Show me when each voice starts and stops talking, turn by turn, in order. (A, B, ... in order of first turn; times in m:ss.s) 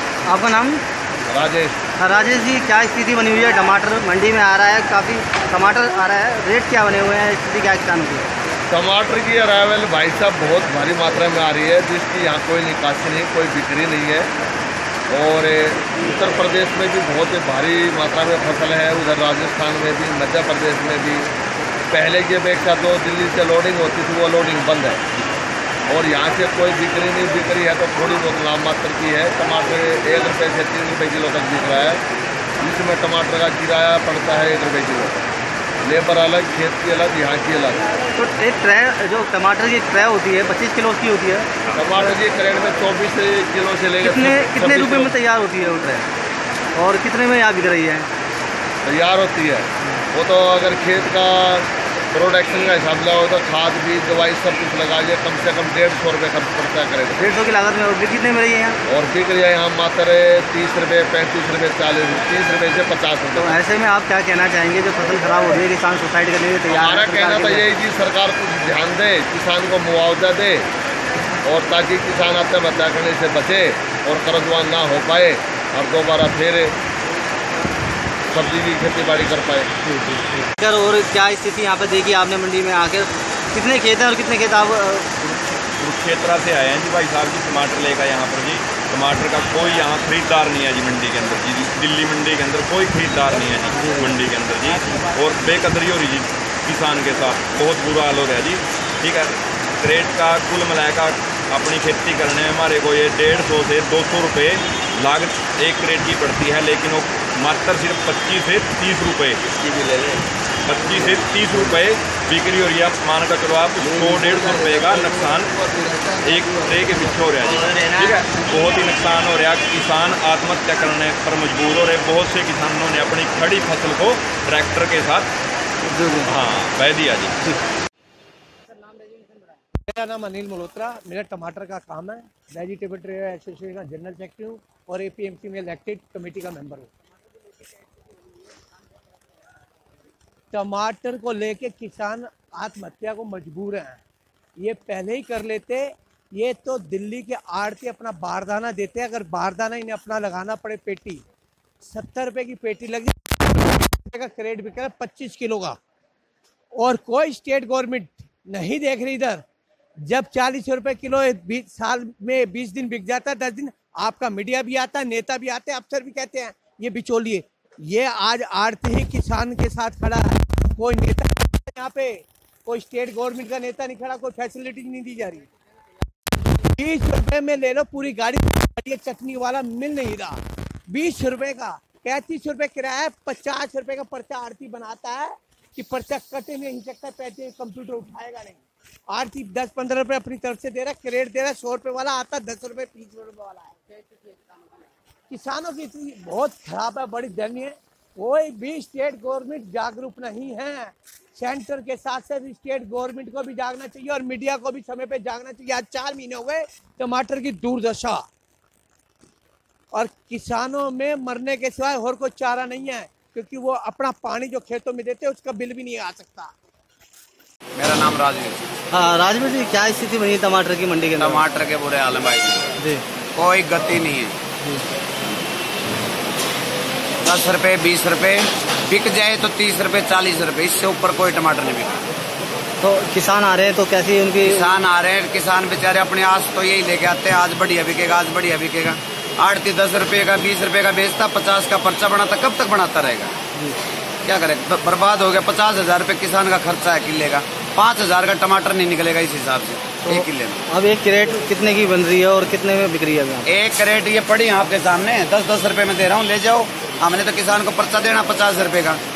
0:00.3-0:00.8 A
0:01.3-0:01.8 B
0:02.0-0:08.3 A
0:08.7-0:14.3 B
0:15.1-0:21.3 B
0:21.9-0:25.0 B
0:25.9-0:32.0 B
0:32.6-0:35.2 B
0:35.8-0:37.9 B
0:38.2-0:41.5 A
0:41.7-0:45.1 B
0:44.0-0:46.1 A
0:46.8-0:48.1 A
0:48.8-0:57.3 B
0:57.2-0:58.8 A
0:58.9-1:03.6 B
1:03.4-1:07.7 A
1:06.7-1:10.7 B
1:11.4-1:16.8 B
1:18.3-1:19.7 B
1:19.9-1:25.2 A
1:25.8-1:49.5 C
1:33.7-1:34.1 A
1:50.7-2:05.3 C
2:05.9-2:06.4 A
2:06.2-2:07.4 C
2:08.8-2:09.3 A
2:09.9-2:16.9 D
2:20.5-2:24.0 D
2:24.6-2:31.2 D
2:31.8-2:35.8 D
2:36.8-2:39.4 D
2:40.1-2:55.5 D
2:56.8-3:14.1 D
3:15.3-3:28.2 D
3:29.9-3:36.5 D
3:37.8-3:38.7 E
3:38.9-3:41.4 A
3:41.2-3:42.7 E
3:43.4-3:44.4 E
3:47.2-3:52.0 E
3:52.8-3:54.7 A
3:54.4-4:03.4 E
4:04.2-4:10.6 E
4:10.0-4:13.5 A
4:13.5-4:19.0 E